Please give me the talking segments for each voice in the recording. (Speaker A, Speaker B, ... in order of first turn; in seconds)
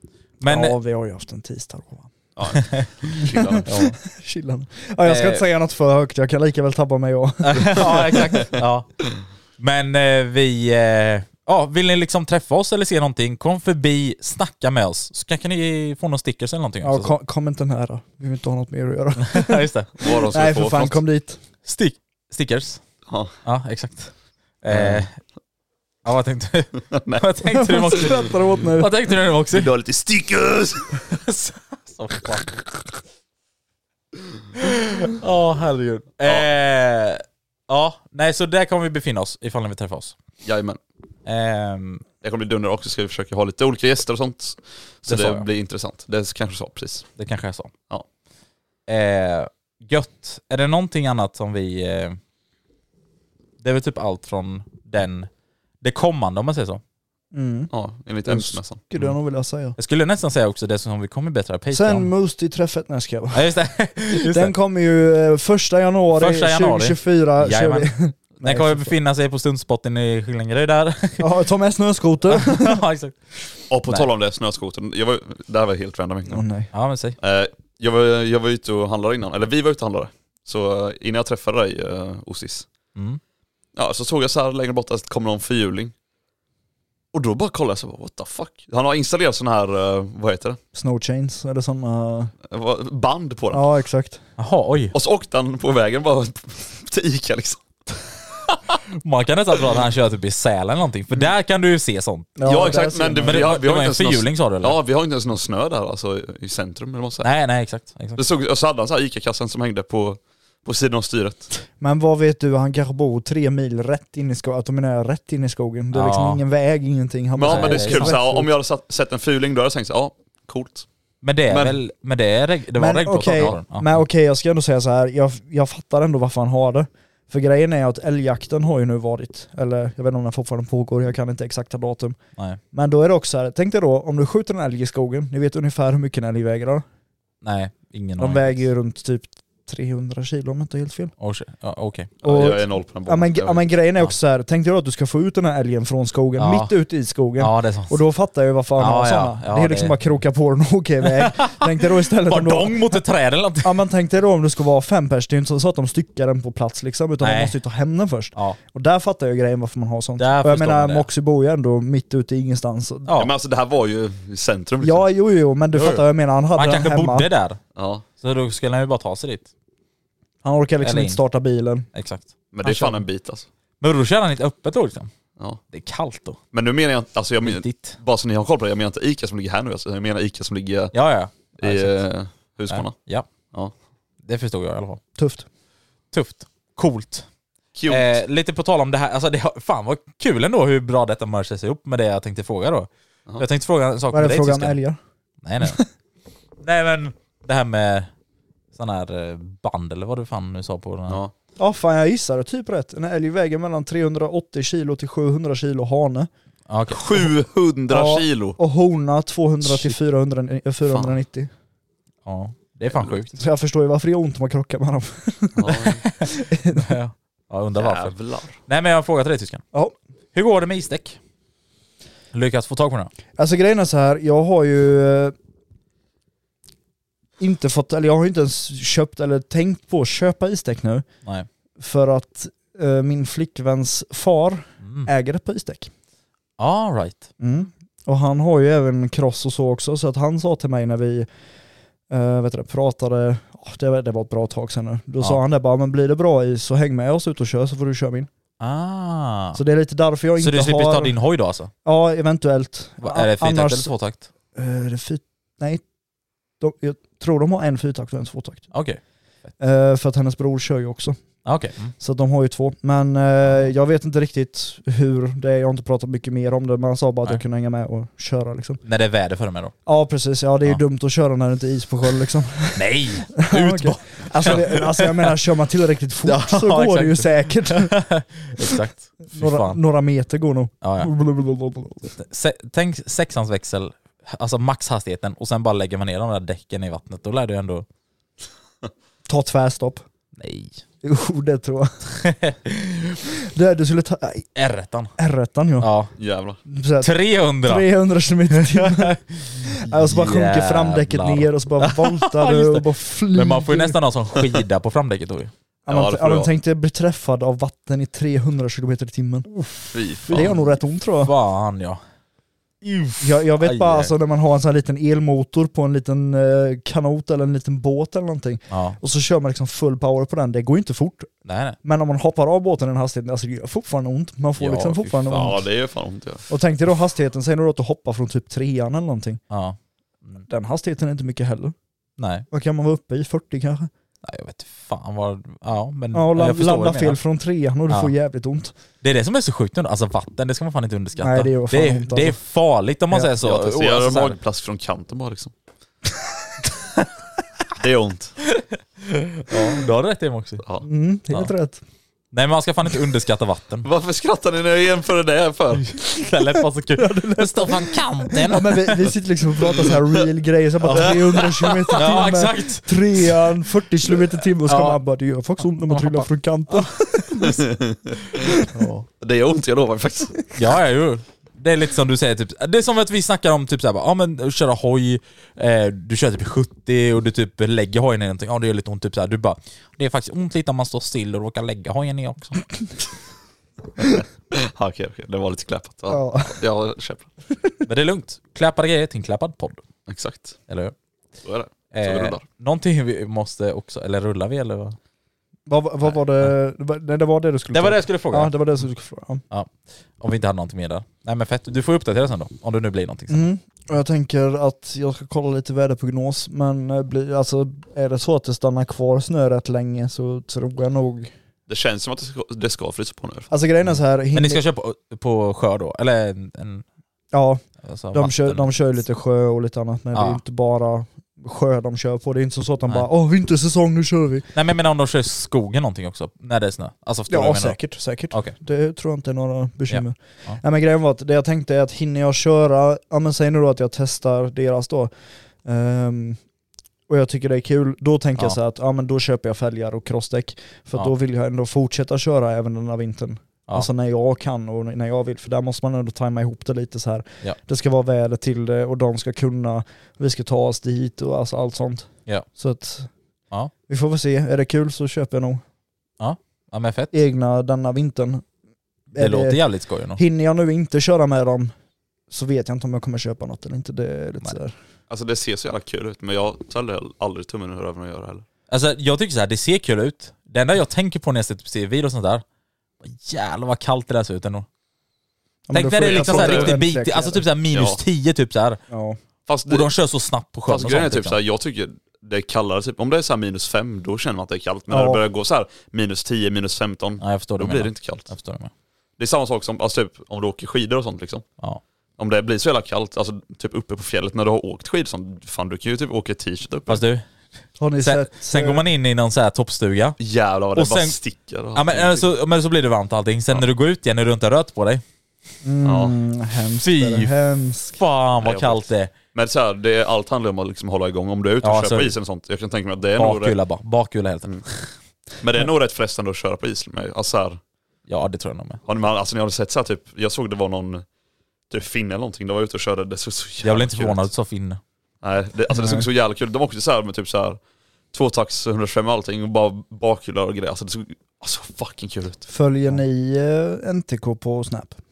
Speaker A: 0.4-0.8, 2.5-2.9, 3.6-4.0, 5.0-5.4, 7.4-8.9, 9.6-17.1, 19.2-19.9, 21.6-22.8, 23.4-25.1, 26.0-29.7, 31.0-32.6, 34.5-40.1, 41.2-42.0, 45.1-45.5, 47.2-47.7, 48.9-52.2, 53.6-55.3, 55.8-56.8, 59.8-62.1, 63.3-64.5, 66.1-71.3, 72.3-73.2, 76.7-77.2, 82.9-83.2, 94.4-94.9, 98.9-104.8, 107.2-108.2, 115.9-116.4, 117.4-118.2, 121.2-124.0, 137.4-138.7, 141.2-142.1, 146.4-146.7, 147.4-148.0, 148.8-150.0, 151.0-153.8, 157.2-157.6, 160.2-161.1, 163.1-163.3, 165.7-167.6, 168.2-169.5, 170.8-171.2, 171.9-173.0, 173.8-175.1, 175.7-176.4, 177.4-178.0, 180.9-182.0, 182.7-183.3, 184.2-185.0, 186.1-187.2, 187.9-194.8, 195.4-195.8, 196.6-198.1, 198.7-201.2, 206.7-207.2, 212.2-213.3, 216.1-218.1, 218.7-219.6, 220.3-221.2, 222.3-223.1, 234.8-235.1, 236.6-237.3, 248.6-249.6, 250.4-251.7, 253.0-254.3, 258.7-259.0, 261.4-261.9, 268.8-269.7, 272.7-275.4, 276.2-279.8, 280.8-281.1, 282.2-287.9, 290.4-290.8, 292.2-293.0, 294.6-295.1, 295.8-296.1, 297.0-297.9, 298.5-305.5, 311.2-312.0, 312.8-314.1, 318.7-319.0, 321.4-321.8, 324.6-325.5, 329.5-330.4, 332.2-332.4, 334.2-337.2, 337.9-338.1, 339.0-344.4, 348.4-350.6, 352.3-353.9, 355.7-359.1, 360.8-361.2, 361.9-363.0, 364.6-365.0, 365.9-366.9, 368.7-369.1, 370.5-382.6, 387.9-389.8, 390.7-390.9, 391.9-395.0, 396.0-396.5, 397.7-398.5, 399.5-403.5, 413.9-416.8, 417.8-418.7, 420.1-420.4, 424.5-428.5, 429.9-430.6, 456.2-457.2, 459.1-460.2, 468.7-472.4, 473.0-474.7, 475.7-478.8, 479.6-481.4, 487.2-488.7, 496.9-497.2, 498.0-500.2, 500.7-501.1, 501.7-505.0, 506.8-507.3, 507.9-509.1, 511.6-512.1, 513.1-514.9, 518.1-518.8, 523.6-524.8
Speaker B: 0.4-2.1, 3.2-8.5, 16.8-21.4, 27.5-28.9, 57.3-57.7, 58.2-59.8, 61.7-63.5, 64.1-68.9, 71.2-72.8, 76.3-76.7, 90.7-92.3, 93.5-94.2, 102.4-103.5, 111.8-118.5, 122.8-132.2, 132.7-136.8, 138.2-141.1, 142.2-153.0, 153.6-163.1, 164.8-167.3, 170.4-171.9, 185.2-185.4, 194.1-195.0, 201.6-206.3, 207.9-211.5, 213.3-216.9, 223.4-225.3, 227.4-231.1, 231.8-235.9, 237.4-241.3, 242.1-248.3, 249.5-251.1, 251.8-253.9, 254.5-255.8, 256.6-258.7, 259.6-261.2, 262.0-268.8, 269.9-278.0, 279.3-282.1, 289.3-290.0, 291.0-291.9, 293.5-294.5, 295.2-295.9, 296.7-304.0, 305.9-311.3, 313.2-321.3, 321.8-325.6, 326.5-329.4, 330.5-331.7, 332.5-333.9, 336.1-338.7, 341.2-342.4, 350.8-351.8, 356.9-367.6, 386.1-386.5, 395.7-399.4, 403.3-411.3, 413.5-414.6, 417.3-424.4, 427.3-435.1, 435.6-436.4, 437.1-453.1, 453.9-455.6, 457.1-458.4, 459.1-459.6, 460.1-461.7, 462.3-464.7, 475.7-477.4, 478.9-479.2, 484.9-485.2, 497.8-498.8, 505.6-508.0, 525.7-526.0, 532.5-535.0
Speaker C: 2.4-3.7, 20.0-21.0, 23.1-23.3, 24.7-25.1, 26.9-27.3, 29.5-31.0, 40.4-40.8, 42.2-47.1, 57.7-58.8, 73.7-76.4, 77.2-82.7, 83.8-85.9, 87.1-90.6, 92.5-93.7, 94.9-98.5, 102.4-107.3, 108.2-111.5, 117.3-120.8, 121.5-121.8, 123.3-123.5, 142.2-143.7, 163.2-165.1, 167.8-168.0, 172.5-173.5, 176.5-180.9, 181.6-182.9, 187.7-188.1, 201.1-201.3, 206.9-208.6, 210.8-211.2, 215.6-216.0, 217.8-218.6, 296.2-296.6, 305.9-306.5, 309.9-310.5, 325.3-326.4, 343.4-345.5, 347.8-348.4, 353.8-355.9, 360.9-362.1, 367.4-368.2, 369.2-370.4, 384.5-387.3, 390.1-390.6, 391.4-392.4, 411.7-413.5, 465.1-468.4, 476.0-476.8, 477.7-478.0, 479.5-479.9, 480.7-488.3, 489.2-491.4, 492.2-497.0, 500.2-502.3, 505.8-506.2, 508.4-508.8, 509.3-513.6, 515.4-517.6, 518.9-521.0, 521.7-524.2, 525.2-527.6, 528.1-532.5